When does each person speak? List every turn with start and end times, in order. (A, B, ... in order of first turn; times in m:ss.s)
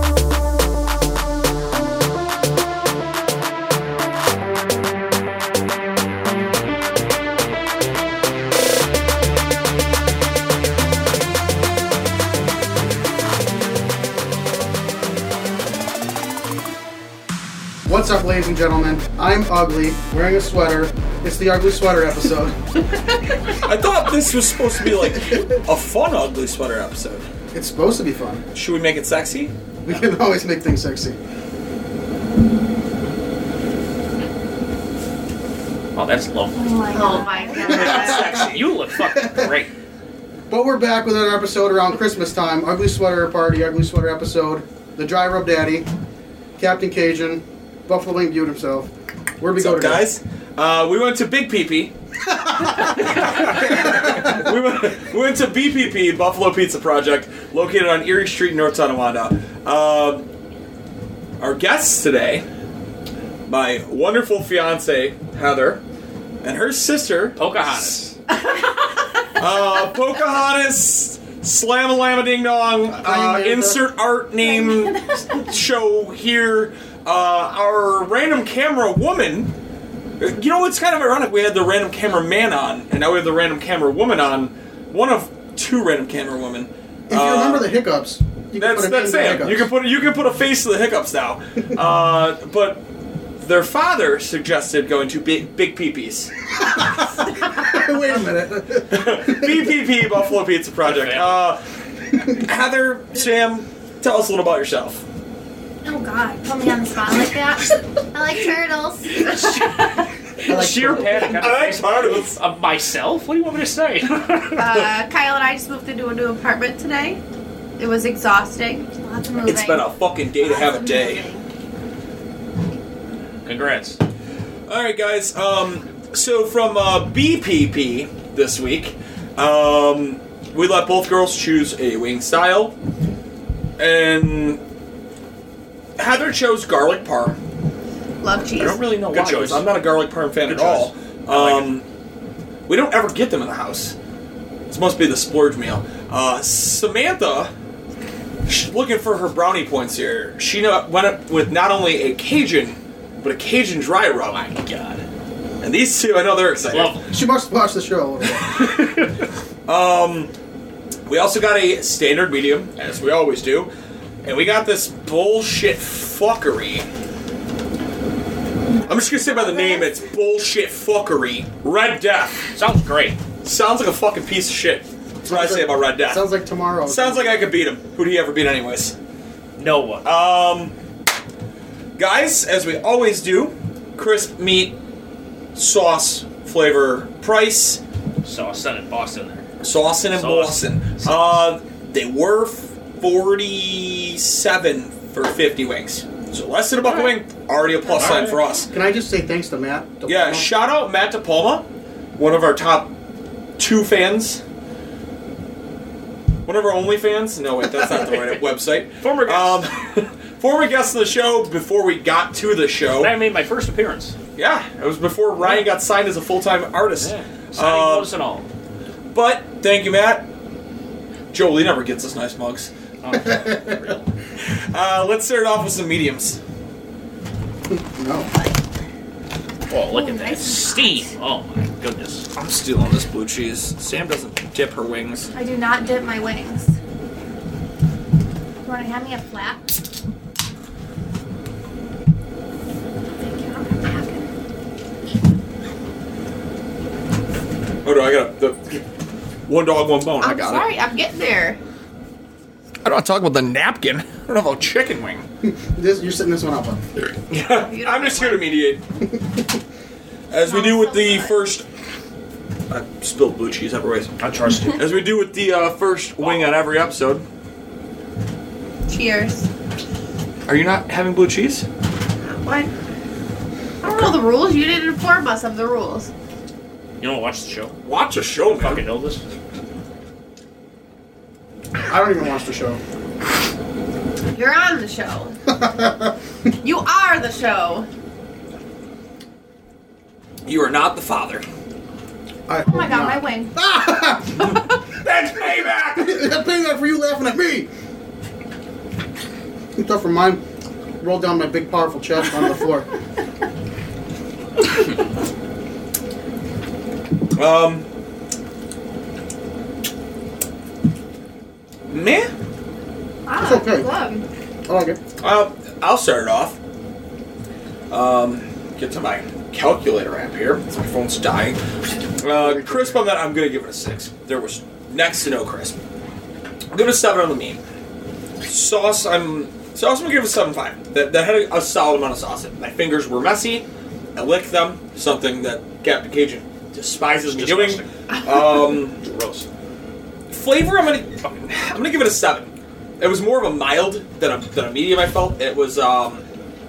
0:17.8-0:22.6 A
0:23.5-0:27.3 B
0:25.0-0:25.6 A
0:27.5-0:28.4 A
0:28.5-0:29.5 B
0:29.8-0:31.2 A
0:36.0-0:39.7 C
0:36.6-0:37.9 D
0:36.9-0:38.5 E
0:37.7-0:38.6 B
0:37.8-0:39.5 A
0:40.5-0:45.9 A
0:46.6-0:50.1 A
0:49.6-1:00.3 B
0:52.4-0:53.1 A
0:53.6-0:54.3 A
1:01.4-1:02.4 B
1:03.5-1:05.8 B
1:06.4-1:08.0 B
1:07.4-1:08.1 C
1:08.4-1:09.0 E
1:09.4-1:19.5 B
1:13.0-1:13.9 A
1:14.4-1:15.5 D
1:20.2-1:27.7 B
1:27.1-1:29.7 A
1:28.6-1:32.9 B
1:33.4-1:36.5 B
1:36.6-1:39.8 A
1:38.9-1:41.6 B
1:40.8-1:41.5 C
1:42.2-1:45.0 B
1:45.8-1:49.6 D
1:49.2-1:54.9 C
1:50.4-1:51.5 A
1:51.1-1:52.4 B
1:54.6-1:57.2 E
1:57.8-1:58.9 E
1:58.9-2:01.4 D
1:59.4-2:01.2 B
2:03.4-2:04.0 C
2:04.7-2:12.8 B
2:13.8-2:14.6 B
2:16.0-2:17.4 B
2:18.2-2:18.8 E
2:18.6-2:21.8 B
2:19.1-2:19.7 C
2:20.4-2:21.8 C
2:22.7-2:24.0 B
2:24.7-2:27.5 B
2:28.5-2:34.6 B
2:34.6-2:35.0 C
2:35.6-2:37.0 B
2:36.7-2:37.1 C
2:37.1-2:38.7 A
2:38.4-2:39.1 C
2:39.7-2:40.3 B
2:41.1-2:43.7 B
2:44.2-2:46.9 B
2:48.8-2:52.6 B
2:49.3-2:49.8 D
2:52.6-2:53.2 C
2:53.4-2:56.3 B
2:55.3-2:57.5 A
2:56.9-2:59.0 B
2:59.6-3:00.1 C
3:00.0-3:00.7 B
3:02.0-3:04.8 B
3:05.6-3:07.8 B
3:08.2-3:09.5 C
3:09.6-3:18.7 B
3:10.1-3:11.4 C
3:16.8-3:17.2 C
3:17.9-3:18.4 C
3:18.7-3:20.6 A
3:20.1-3:22.9 B
3:23.6-3:24.4 B
3:26.4-3:33.2 B
3:29.0-3:29.7 C
3:33.0-3:34.2 C
3:34.4-3:38.1 B
3:35.4-3:35.7 C
3:36.9-3:38.5 C
3:39.1-3:40.3 B
3:41.3-3:42.7 B
3:43.0-3:44.1 C
3:43.1-3:44.0 A
3:44.4-3:46.4 B
3:47.7-3:48.3 A
3:49.7-3:52.3 C
3:49.9-3:51.1 D
3:52.4-3:55.3 B
3:55.4-3:56.8 D
3:58.6-3:59.7 D
4:03.2-4:04.3 D
4:04.0-4:04.3 E
4:07.8-4:08.8 B
4:09.5-4:10.7 B
4:10.2-4:11.6 E
4:12.8-4:15.2 B
4:15.4-4:16.8 A
4:17.3-4:18.8 B
4:17.4-4:18.5 E
4:19.0-4:19.4 A
4:20.3-4:21.6 B
4:20.5-4:21.4 D
4:22.7-4:24.1 B
4:24.2-4:25.1 C
4:24.7-4:27.2 B
4:26.2-4:26.5 C
4:28.9-4:29.5 E
4:30.5-4:31.7 B
4:32.2-4:32.7 E
4:33.8-4:36.1 E
4:37.0-4:37.8 C
4:37.8-4:38.8 B
4:38.4-4:39.2 C
4:41.8-4:42.8 A
4:44.3-4:45.4 E
4:45.6-4:46.1 A
4:46.6-4:47.9 E
4:50.4-4:51.4 B
4:52.5-4:54.6 A
4:52.6-4:53.5 D
4:55.0-4:56.2 B
4:56.0-4:57.7 A
4:59.8-5:00.4 A
5:01.0-5:02.9 A
5:07.4-5:07.9 B
5:11.9-5:12.3 B
5:13.3-5:14.3 D
5:13.4-5:13.9 A
5:14.7-5:15.0 A
5:15.2-5:16.6 B
5:17.9-5:21.6 B
5:22.2-5:25.8 B
5:22.2-5:23.1 A
5:26.7-5:27.6 B
5:28.4-5:39.0 B
5:37.0-5:38.0 C
5:39.0-5:39.5 C
5:40.3-5:46.2 B